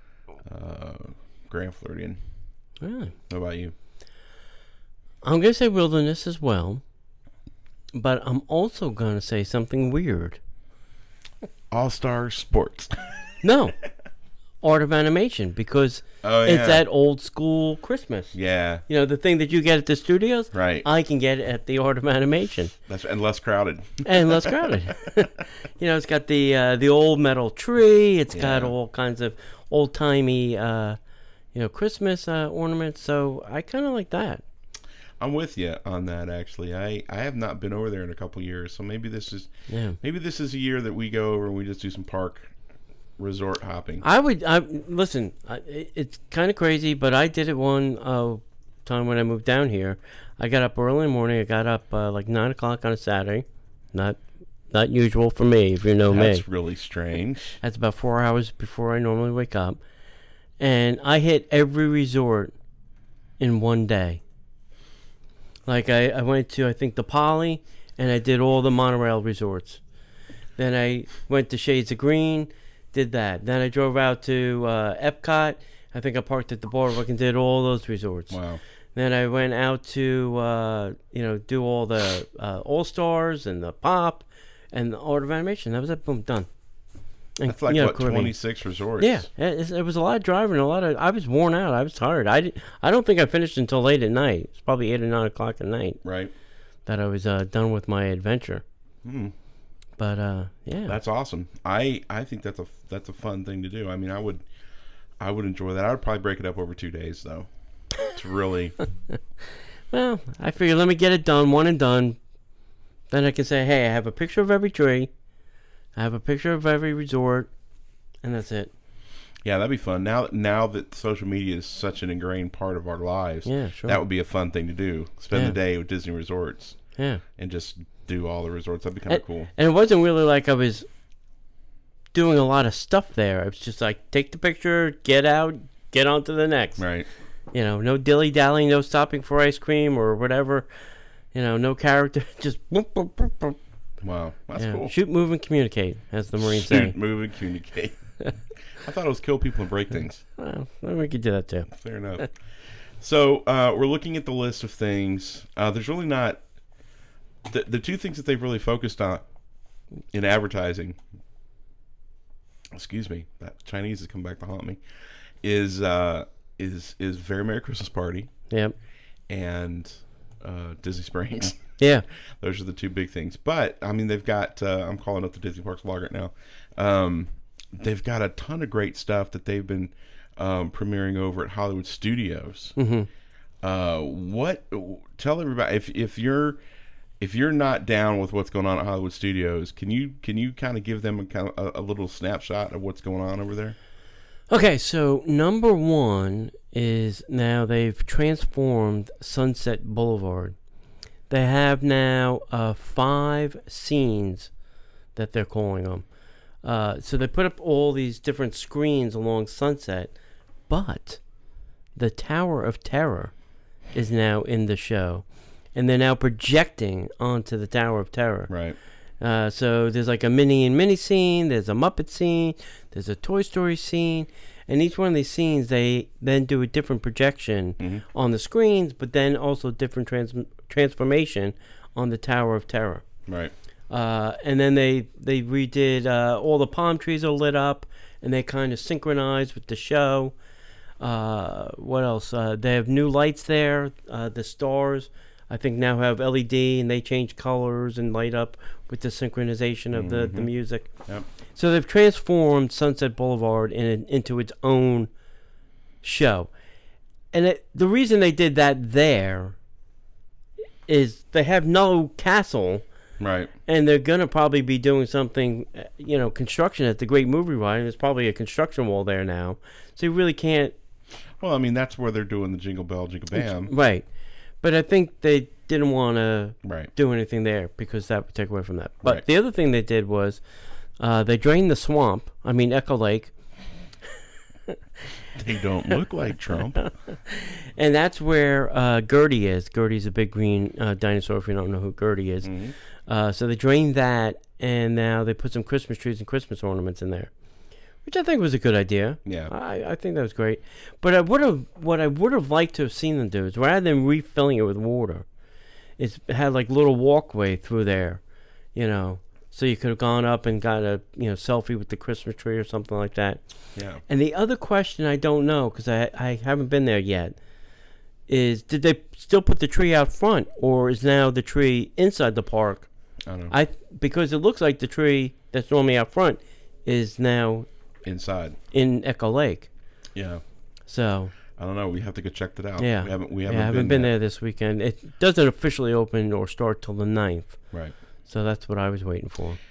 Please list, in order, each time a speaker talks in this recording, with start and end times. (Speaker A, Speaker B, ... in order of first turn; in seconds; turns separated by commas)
Speaker A: 0.4-2.2, Speaker B: 2.8-3.1, Speaker A: 3.3-3.7, Speaker B: 5.2-6.8, Speaker B: 7.9-10.4, Speaker A: 11.7-13.1, Speaker B: 13.4-13.8, Speaker B: 14.6-18.3, Speaker A: 16.2-16.8, Speaker A: 18.3-18.9, Speaker B: 18.9-22.7, Speaker A: 20.5-20.9, Speaker A: 22.9-24.8, Speaker B: 24.1-31.0, Speaker A: 28.3-28.7, Speaker B: 31.5-34.4, Speaker A: 35.2-42.5, Speaker B: 39.7-40.0, Speaker A: 43.2-44.0, Speaker B: 44.0-54.2, Speaker B: 54.7-56.4, Speaker A: 56.1-57.6, Speaker B: 57.6-59.8, Speaker B: 60.6-62.5, Speaker B: 63.4-64.2, Speaker B: 65.7-69.8, Speaker B: 70.6-78.4, Speaker A: 78.3-78.6, Speaker B: 79.0-86.5, Speaker B: 87.4-88.3, Speaker A: 87.5-89.3, Speaker B: 89.0-96.0, Speaker A: 96.0-96.3, Speaker B: 96.9-98.6, Speaker A: 99.0-99.3, Speaker B: 100.0-101.0, Speaker A: 100.9-104.5, Speaker A: 105.2-108.8, Speaker B: 109.9-112.2, Speaker B: 113.1-115.1, Speaker B: 116.0-117.5, Speaker B: 118.2-118.7, Speaker A: 119.4-126.8, Speaker B: 123.5-124.0, Speaker B: 125.3-125.6, Speaker B: 127.0-127.2, Speaker A: 127.4-129.5, Speaker B: 129.1-130.9, Speaker B: 132.1-136.8, Speaker A: 136.8-137.1, Speaker B: 137.5-140.7, Speaker B: 141.3-143.6, Speaker A: 144.0-144.9, Speaker B: 144.6-146.9, Speaker A: 146.4-148.1, Speaker A: 148.7-150.2, Speaker B: 150.4-151.7, Speaker A: 151.7-152.3, Speaker A: 153.0-156.4, Speaker A: 157.5-159.3, Speaker A: 160.1-161.0, Speaker A: 162.7-164.8, Speaker A: 165.4-168.3, Speaker B: 168.5-168.8, Speaker A: 169.3-171.8, Speaker B: 171.8-172.1, Speaker A: 172.4-182.8, Speaker B: 182.8-183.1, Speaker A: 183.6-186.6, Speaker A: 187.2-193.8, Speaker B: 194.5-200.6, Speaker B: 201.3-204.5, Speaker B: 205.2-206.1, Speaker B: 206.6-210.1, Speaker B: 210.7-211.2, Speaker B: 212.0-213.3, Speaker B: 213.9-218.5, Speaker A: 218.5-218.8, Speaker B: 219.2-233.1, Speaker A: 227.8-228.1, Speaker A: 233.3-233.5, Speaker B: 233.9-240.3, Speaker B: 241.0-250.9, Speaker A: 249.9-251.2, Speaker B: 251.5-255.1, Speaker B: 256.0-256.5, Speaker B: 257.3-259.6, Speaker B: 260.9-262.8, Speaker A: 263.2-263.5, Speaker B: 263.7-270.8, Speaker A: 271.4-273.7, Speaker B: 273.3-274.1, Speaker B: 274.6-280.4, Speaker A: 276.6-276.9, Speaker B: 281.0-283.3, Speaker A: 285.4-286.9, Speaker B: 286.8-292.5, Speaker A: 292.4-292.8, Speaker B: 293.1-297.3, Speaker B: 298.1-305.3, Speaker A: 299.2-299.5, Speaker B: 306.0-308.2, Speaker B: 308.7-313.4, Speaker A: 313.8-314.0, Speaker B: 314.0-317.4, Speaker B: 318.3-322.9, Speaker A: 323.3-323.6, Speaker B: 323.5-327.7, Speaker A: 328.0-328.6, Speaker B: 328.7-329.7, Speaker A: 330.1-330.4, Speaker B: 330.9-331.3, Speaker A: 331.6-334.1, Speaker B: 332.8-337.6, Speaker B: 338.2-339.6